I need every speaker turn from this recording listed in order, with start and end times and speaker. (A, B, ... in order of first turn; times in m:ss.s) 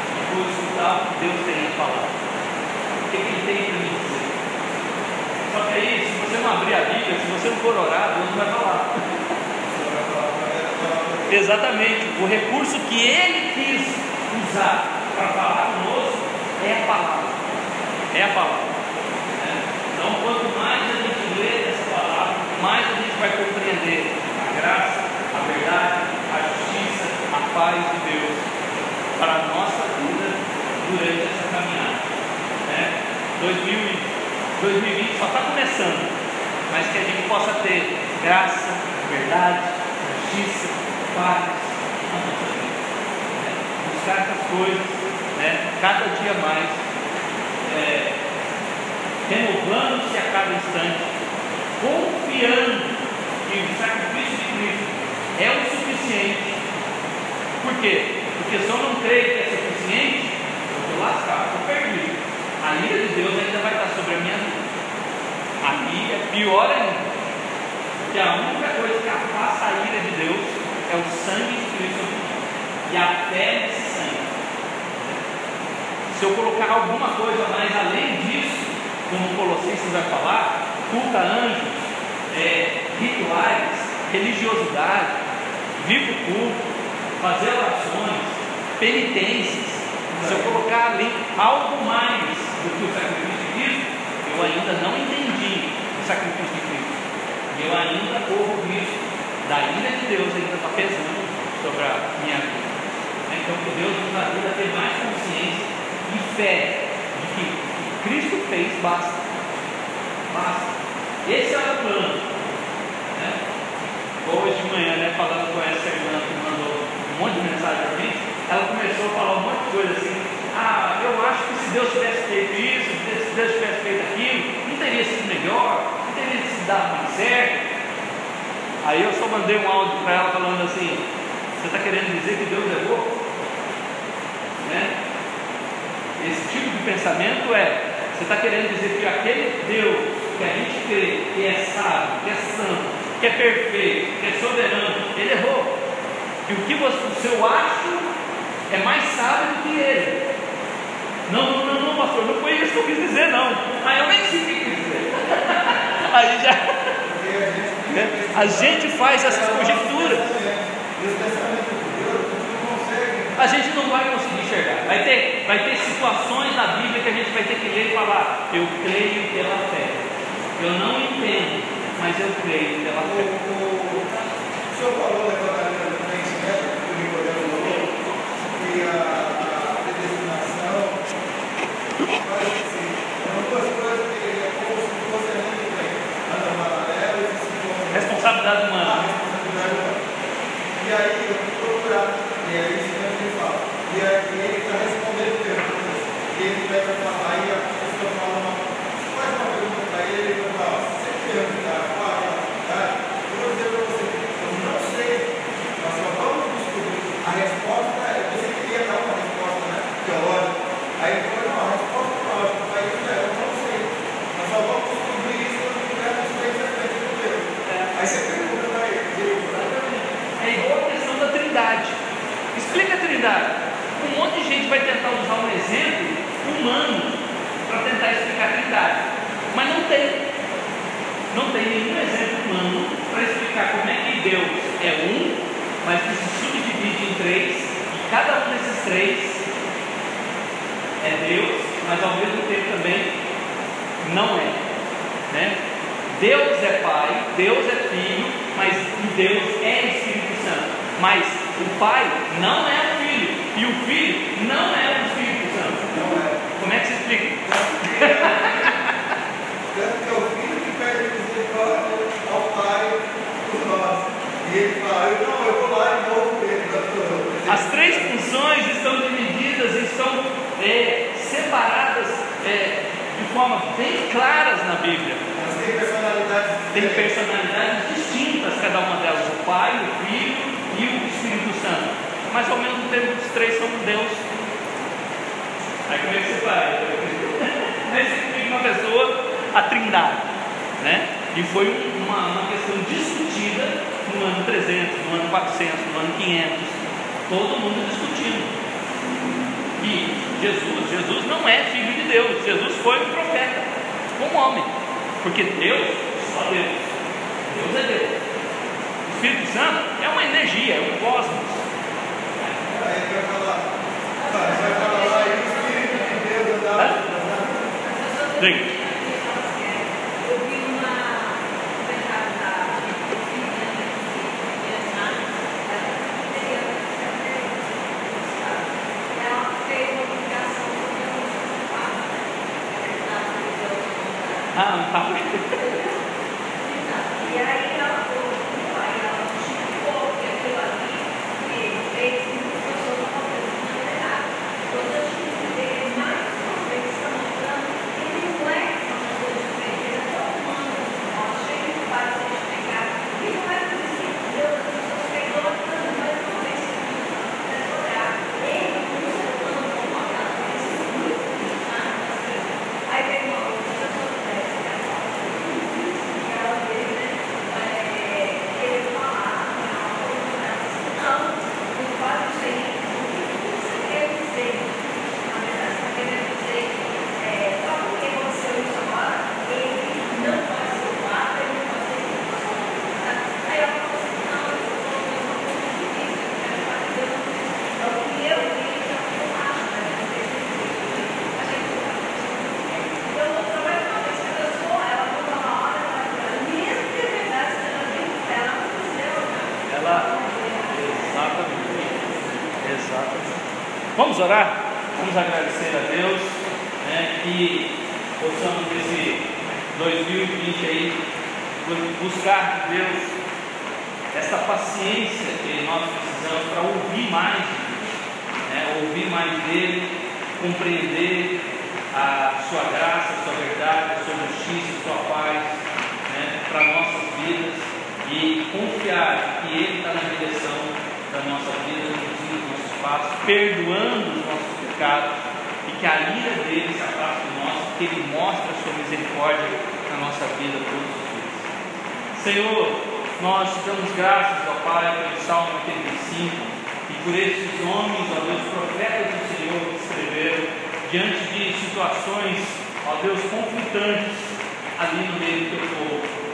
0:00.1-0:02.2 A
0:03.1-0:04.3 A
0:05.4-0:09.0 A
0:09.7-0:11.4 B
0:11.3-0:17.4 A
0:18.1-0:18.8 A
0:19.4-0:28.5 A
0:29.2-0:32.0 A
0:32.6-0:36.1 A
0:36.7-0:42.8 A
0:43.3-0:46.8 A
0:47.6-0:48.1 A
0:49.2-0:51.1 A
0:51.8-0:56.6 A
0:57.6-1:04.6 A
1:05.6-1:07.0 A
1:08.1-1:14.3 A
1:16.1-1:25.2 A
1:25.8-1:26.6 A
1:27.2-1:37.0 A
1:37.5-1:49.3 A
1:50.3-1:52.3 A
1:53.1-1:53.4 A
1:54.2-2:07.6 A
2:08.8-2:11.0 A
2:11.6-2:13.2 A
2:14.6-2:14.9 A
2:16.2-2:25.7 A
2:26.4-2:28.1 A
2:28.7-2:30.2 A
2:31.3-2:36.9 A
2:37.0-2:43.5 B
2:37.9-2:40.2 A
2:43.4-2:50.0 A
2:50.6-2:53.3 A
2:53.0-2:54.1 B
2:54.7-2:57.9 B
2:58.5-3:01.0 B
3:02.0-3:08.2 B
3:07.9-3:09.0 A
3:08.8-3:10.0 B
3:10.8-3:25.2 B
3:25.8-3:39.9 B
3:40.3-3:42.0 A
3:42.5-3:50.2 A
3:51.3-3:59.4 A
4:01.0-4:03.2 A
4:04.0-4:05.6 A
4:06.1-4:18.9 A
4:15.8-4:16.5 B
4:17.4-4:18.7 B
4:19.7-4:28.1 B
4:27.5-4:35.2 A
4:35.3-4:37.1 B
4:36.7-4:44.2 A
4:45.9-4:58.5 A
4:59.8-5:06.9 A
5:07.5-5:08.2 A
5:09.0-5:11.6 A
5:12.6-5:13.7 B
5:14.2-5:16.2 C
5:14.3-5:17.6 B
5:17.8-5:34.6 C
5:18.4-5:18.7 A
5:34.5-5:35.7 A
5:35.5-5:36.0 C
5:36.6-6:42.5 C
6:39.6-6:40.1 A
6:40.7-6:42.0 A
6:42.6-6:43.4 A
6:44.0-6:51.0 A
6:51.6-6:53.1 A
6:54.1-7:01.4 A
7:01.9-7:21.5 A
7:22.1-7:34.2 A
7:34.8-7:36.1 A